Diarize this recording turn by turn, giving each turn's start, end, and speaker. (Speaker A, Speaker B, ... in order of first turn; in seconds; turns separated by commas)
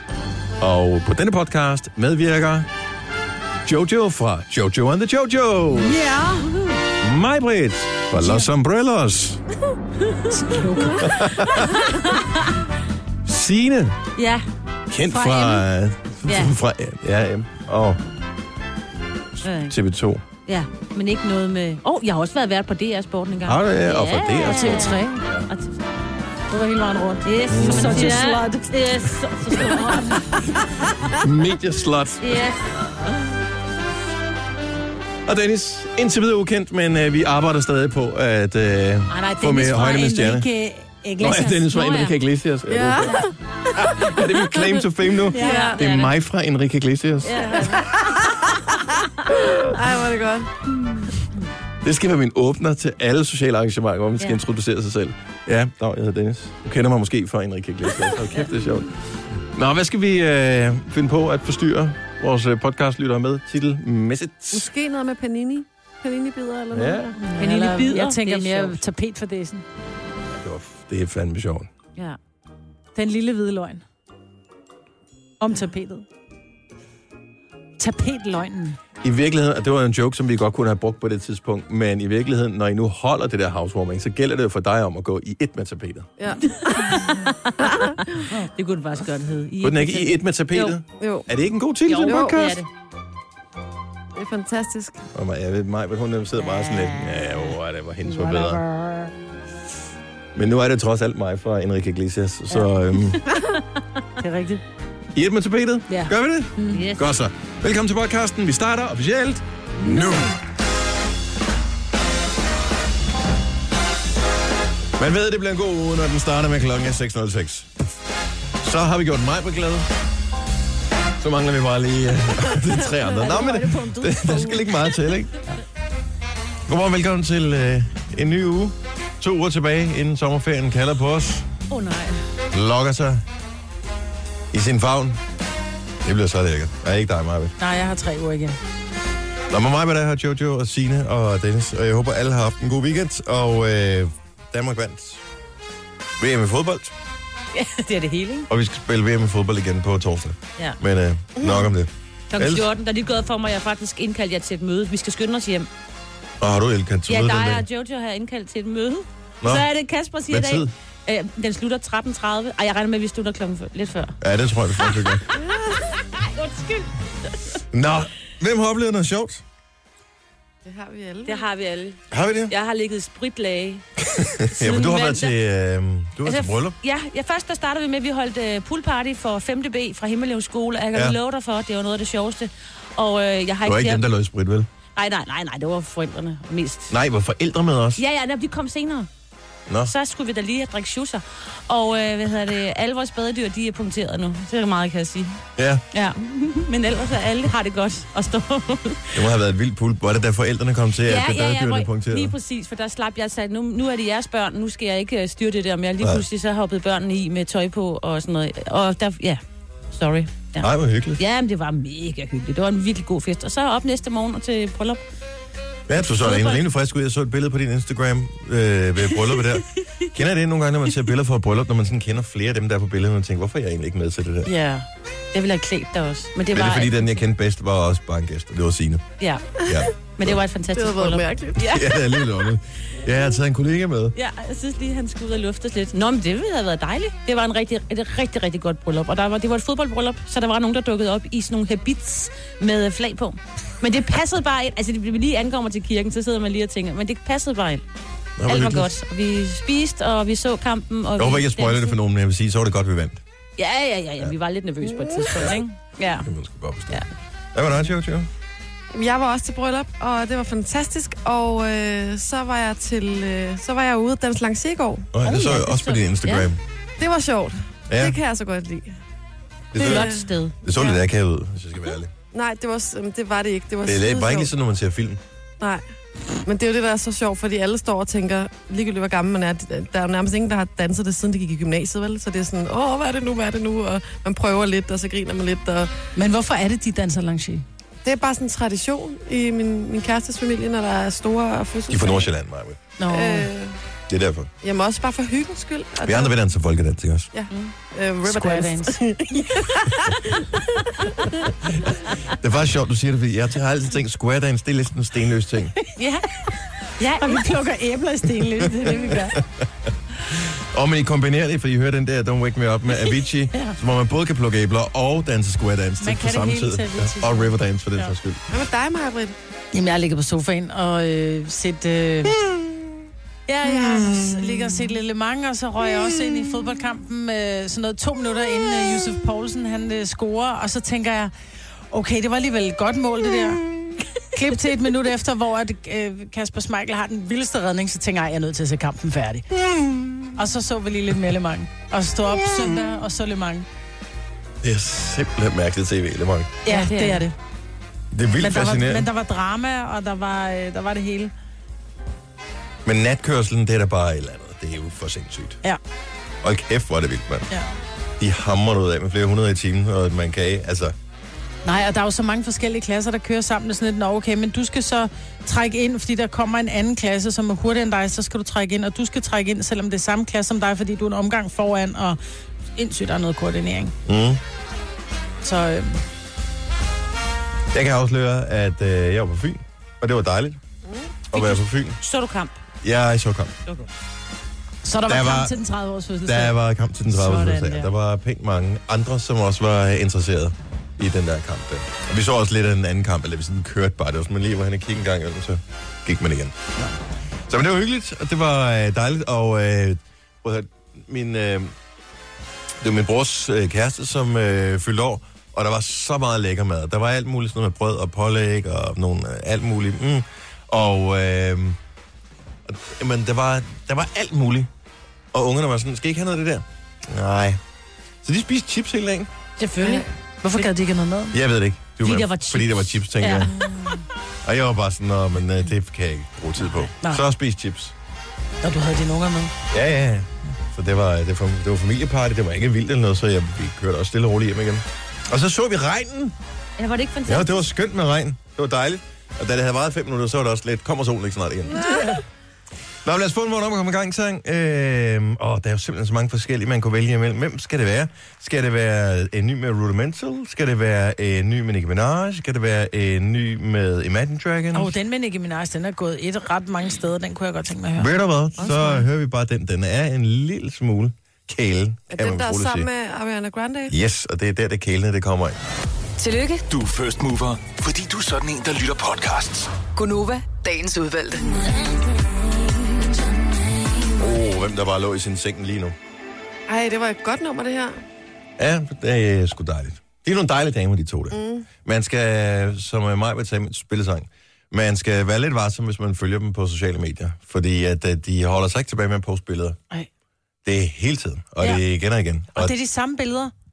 Speaker A: 0.6-2.7, Speaker A: 3.6-6.0, Speaker B: 5.7-6.6, Speaker A: 7.0-9.4, Speaker C: 8.2-8.5, Speaker B: 10.3-11.3, Speaker A: 11.0-11.8, Speaker C: 11.2-12.7, Speaker A: 13.2-14.0, Speaker C: 14.2-14.4, Speaker A: 14.9-18.0, Speaker B: 15.1-15.6, Speaker C: 16.2-16.5, Speaker C: 19.4-19.8, Speaker A: 19.6-20.2, Speaker C: 20.5-25.8, Speaker A: 23.4-25.5, Speaker B: 24.5-25.2, Speaker B: 26.5-28.8, Speaker C: 27.2-30.4, Speaker A: 27.5-28.2, Speaker B: 29.5-30.6, Speaker A: 31.1-32.5, Speaker C: 32.2-32.6, Speaker A: 35.2-40.5, Speaker B: 39.1-41.9, Speaker A: 41.2-47.8, Speaker C: 41.2-42.1, Speaker D: 42.7-44.8, Speaker C: 45.3-46.1, Speaker D: 45.4-45.8, Speaker C: 47.2-48.1, Speaker D: 47.7-48.7, Speaker D: 49.3-50.5, Speaker A: 51.8-58.9, Speaker A: 59.5-64.7, Speaker D: 64.5-67.2, Speaker A: 66.7-67.1, Speaker B: 67.2-69.6, Speaker C: 67.3-68.8, Speaker A: 70.3-71.7, Speaker B: 72.9-73.8, Speaker B: 75.4-76.0, Speaker B: 77.8-78.8, Speaker A: 79.0-86.1, Speaker D: 86.2-88.3, Speaker C: 86.9-90.8, Speaker A: 89.6-92.6, Speaker D: 91.0-91.3, Speaker C: 91.8-92.7, Speaker D: 92.0-92.3, Speaker D: 94.1-95.0, Speaker A: 95.1-98.6, Speaker B: 98.0-99.1, Speaker A: 100.3-103.2, Speaker B: 104.2-104.6, Speaker A: 105.1-110.3, Speaker B: 105.9-106.9, Speaker C: 106.7-107.1, Speaker A: 115.0-117.7, Speaker A: 118.6-119.9, Speaker A: 121.2-125.3, Speaker C: 122.6-125.1, Speaker A: 126.7-131.5, Speaker C: 131.7-132.2, Speaker A: 132.5-133.2, Speaker A: 134.5-135.2, Speaker A: 136.0-137.5, Speaker B: 137.6-138.6, Speaker A: 139.5-145.2, Speaker A: 146.2-146.9, Speaker C: 147.5-148.5, Speaker A: 148.5-152.7, Speaker D: 151.4-151.7, Speaker C: 152.3-155.7, Speaker A: 156.4-157.7, Speaker C: 157.1-164.2, Speaker A: 159.4-159.7, Speaker A: 160.3-160.7, Speaker A: 164.2-165.2, Speaker C: 166.2-167.6, Speaker A: 167.7-169.4, Speaker D: 170.7-171.5, Speaker C: 171.2-173.8, Speaker A: 172.1-172.5, Speaker A: 174.0-176.8, Speaker C: 174.5-175.3, Speaker C: 176.2-184.0, Speaker A: 183.6-184.7, Speaker C: 184.9-186.9, Speaker A: 186.9-188.0, Speaker C: 188.0-189.1, Speaker A: 189.7-189.9, Speaker C: 189.8-195.4, Speaker A: 195.6-195.8, Speaker C: 195.9-199.2, Speaker A: 199.1-202.3, Speaker C: 201.1-215.0, Speaker A: 210.6-211.2, Speaker A: 215.9-224.5, Speaker C: 216.2-216.6, Speaker C: 219.3-220.1, Speaker C: 224.5-227.1, Speaker A: 226.5-229.1, Speaker C: 229.2-229.5, Speaker A: 229.7-230.4, Speaker C: 230.2-231.9, Speaker D: 230.7-231.9, Speaker A: 231.6-234.2, Speaker C: 234.1-247.8, Speaker A: 248.4-248.9, Speaker C: 248.4-251.9, Speaker A: 251.2-253.2, Speaker C: 253.6-256.3, Speaker D: 254.8-255.5, Speaker A: 255.3-255.6, Speaker A: 256.2-258.3, Speaker D: 258.9-265.2, Speaker A: 265.1-266.6, Speaker C: 265.2-266.5, Speaker D: 267.0-268.9, Speaker A: 267.9-268.2, Speaker A: 269.7-272.1, Speaker D: 269.8-270.3, Speaker C: 269.8-270.6, Speaker D: 272.3-274.5, Speaker A: 273.9-275.2, Speaker D: 276.4-285.9, Speaker B: 286.2-287.6, Speaker D: 288.0-292.3, Speaker A: 291.9-292.8, Speaker B: 293.0-293.5, Speaker D: 293.1-293.8, Speaker A: 294.1-294.5, Speaker D: 294.6-296.4, Speaker A: 296.0-297.3, Speaker D: 297.3-300.6, Speaker B: 298.3-299.0, Speaker A: 301.9-305.7, Speaker C: 307.0-307.5, Speaker B: 307.0-309.4, Speaker A: 308.6-309.7, Speaker A: 310.3-318.4, Speaker B: 316.0-318.1, Speaker D: 318.5-319.4, Speaker B: 319.7-322.4, Speaker B: 323.5-331.3, Speaker D: 323.6-324.8, Speaker B: 331.9-333.6, Speaker B: 334.3-339.4, Speaker A: 339.5-340.4, Speaker B: 340.4-343.7, Speaker A: 344.6-346.6, Speaker B: 346.6-347.4, Speaker C: 346.7-347.3, Speaker A: 348.1-349.1, Speaker B: 348.4-351.3, Speaker A: 352.9-355.6, Speaker A: 356.4-357.5, Speaker A: 358.2-360.9, Speaker B: 361.6-372.2, Speaker B: 372.8-373.9, Speaker A: 374.1-374.4, Speaker B: 375.4-376.0, Speaker A: 377.7-380.6, Speaker D: 380.9-381.2, Speaker A: 381.3-382.0, Speaker C: 381.3-382.6, Speaker A: 382.8-383.5, Speaker B: 384.8-386.6, Speaker A: 385.1-385.5, Speaker A: 386.2-396.6, Speaker B: 387.1-387.9, Speaker A: 397.5-401.7, Speaker A: 402.8-411.8, Speaker A: 412.7-414.7, Speaker A: 415.3-417.6, Speaker A: 418.2-419.3, Speaker C: 419.6-420.1, Speaker B: 419.8-421.4, Speaker A: 421.3-423.5, Speaker C: 422.0-424.0, Speaker A: 424.4-427.9, Speaker B: 426.8-427.2, Speaker B: 428.6-429.5, Speaker A: 429.7-436.4, Speaker C: 436.8-437.6, Speaker A: 437.2-442.1, Speaker D: 441.9-442.2, Speaker A: 443.1-454.9, Speaker B: 454.7-458.1, Speaker A: 458.0-462.9, Speaker D: 458.6-459.1, Speaker D: 462.1-463.9, Speaker A: 463.9-465.6, Speaker E: 466.2-466.7, Speaker F: 466.7-469.7, Speaker E: 469.9-471.6, Speaker A: 474.2-475.9, Speaker D: 476.7-478.0, Speaker A: 478.6-489.8, Speaker D: 481.3-481.7, Speaker A: 490.6-492.7, Speaker B: 492.5-493.5